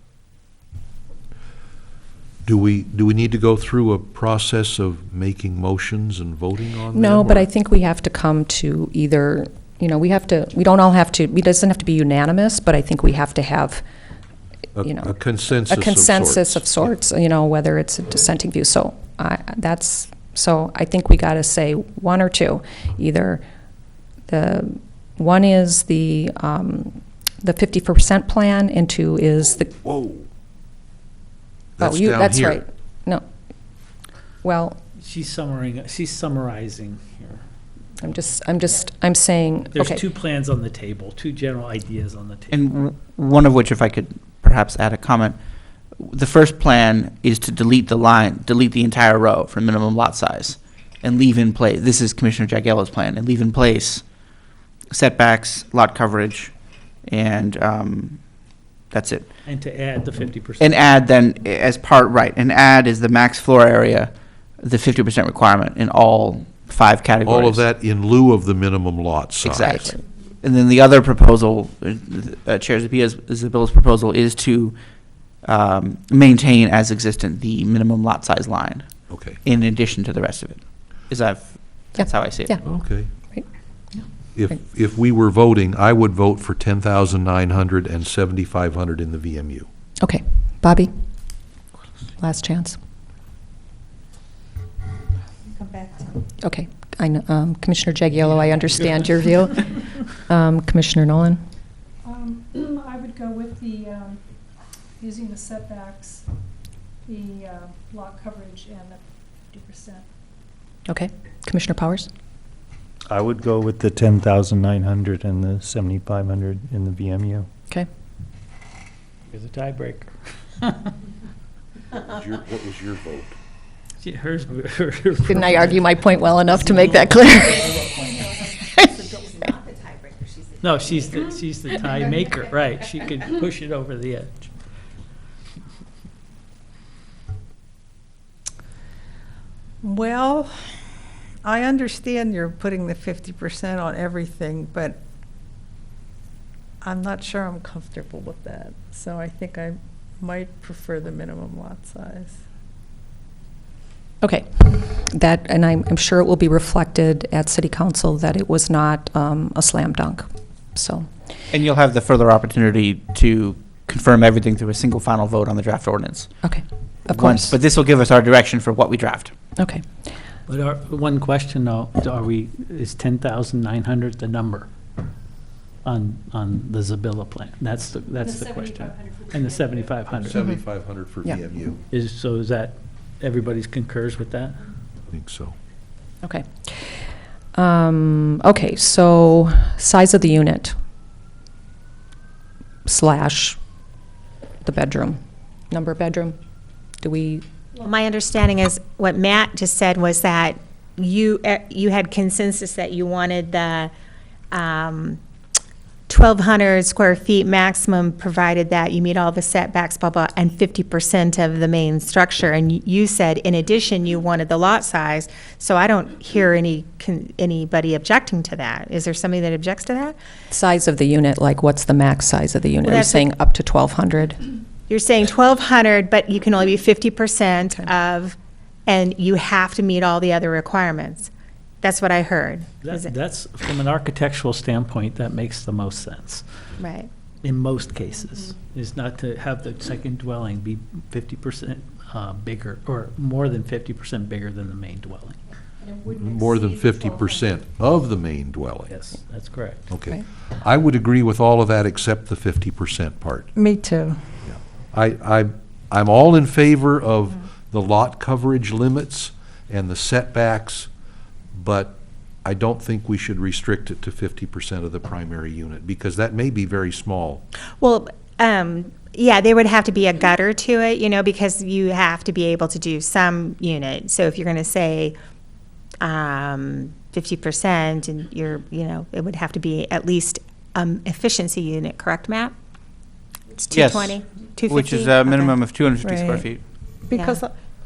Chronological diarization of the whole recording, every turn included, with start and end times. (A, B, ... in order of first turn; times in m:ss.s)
0:02.5-0:07.5 A
0:06.9-0:13.8 B
0:14.8-0:16.9 A
0:14.8-0:23.4 B
0:24.3-0:29.7 B
0:29.8-0:30.2 A
0:31.8-0:32.6 A
0:31.8-0:33.2 B
0:34.4-0:34.8 B
0:35.0-0:37.4 C
0:38.0-0:40.0 B
0:39.7-0:42.5 C
0:42.5-0:45.4 D
0:46.0-0:54.1 D
0:54.9-0:56.5 D
0:57.1-0:58.2 D
0:58.9-0:59.3 D
0:59.4-1:01.0 C
1:00.6-1:07.6 D
1:07.2-1:09.9 A
1:09.4-1:14.8 D
1:15.4-1:18.9 D
1:19.1-1:19.4 A
1:19.4-1:22.5 D
1:22.0-1:23.4 B
1:22.6-1:23.1 A
1:24.4-1:29.7 A
1:30.0-1:30.9 B
1:32.2-1:32.8 B
1:36.4-1:41.4 B
1:42.0-1:44.2 E
1:45.0-1:46.3 E
1:47.1-1:50.0 E
1:50.9-1:52.1 B
1:53.1-1:57.5 F
1:59.3-2:00.9 C
2:01.9-2:03.4 A
2:04.0-2:08.2 C
2:05.3-2:07.7 B
2:10.6-2:14.5 C
2:19.8-2:20.8 G
2:21.4-2:25.0 G
2:26.8-2:32.4 G
2:34.2-2:41.1 B
2:41.5-2:46.3 D
2:46.4-2:47.6 B
2:47.2-2:49.3 D
2:49.6-2:49.8 B
2:50.5-2:54.7 C
2:55.8-3:00.3 C
2:58.1-3:00.4 E
3:00.2-3:01.8 A
3:01.9-3:04.6 C
3:05.1-3:05.6 A
3:06.2-3:06.9 B
3:07.6-3:10.8 B
3:12.9-3:13.6 B
3:14.6-3:15.2 B
3:15.7-3:16.4 B
3:17.0-3:17.4 B
3:17.8-3:23.9 H
3:24.5-3:25.2 H
3:26.1-3:40.2 H
3:40.5-3:44.4 B
3:42.8-3:43.2 H
3:44.9-3:51.3 H
3:51.8-3:53.1 H
3:52.8-3:56.4 C
3:56.8-3:57.1 H
3:57.4-4:05.4 C
3:58.1-3:58.7 E
4:05.8-4:07.3 E
4:06.2-4:08.9 A
4:08.9-4:09.9 C
4:09.9-4:13.5 A
4:13.6-4:14.2 G
4:14.5-4:20.9 A
4:21.5-4:27.4 A
4:27.8-4:35.2 H
4:36.0-4:42.5 H
4:43.5-4:46.4 H
4:43.7-4:46.6 D
4:47.1-4:47.5 G
4:47.1-4:47.4 H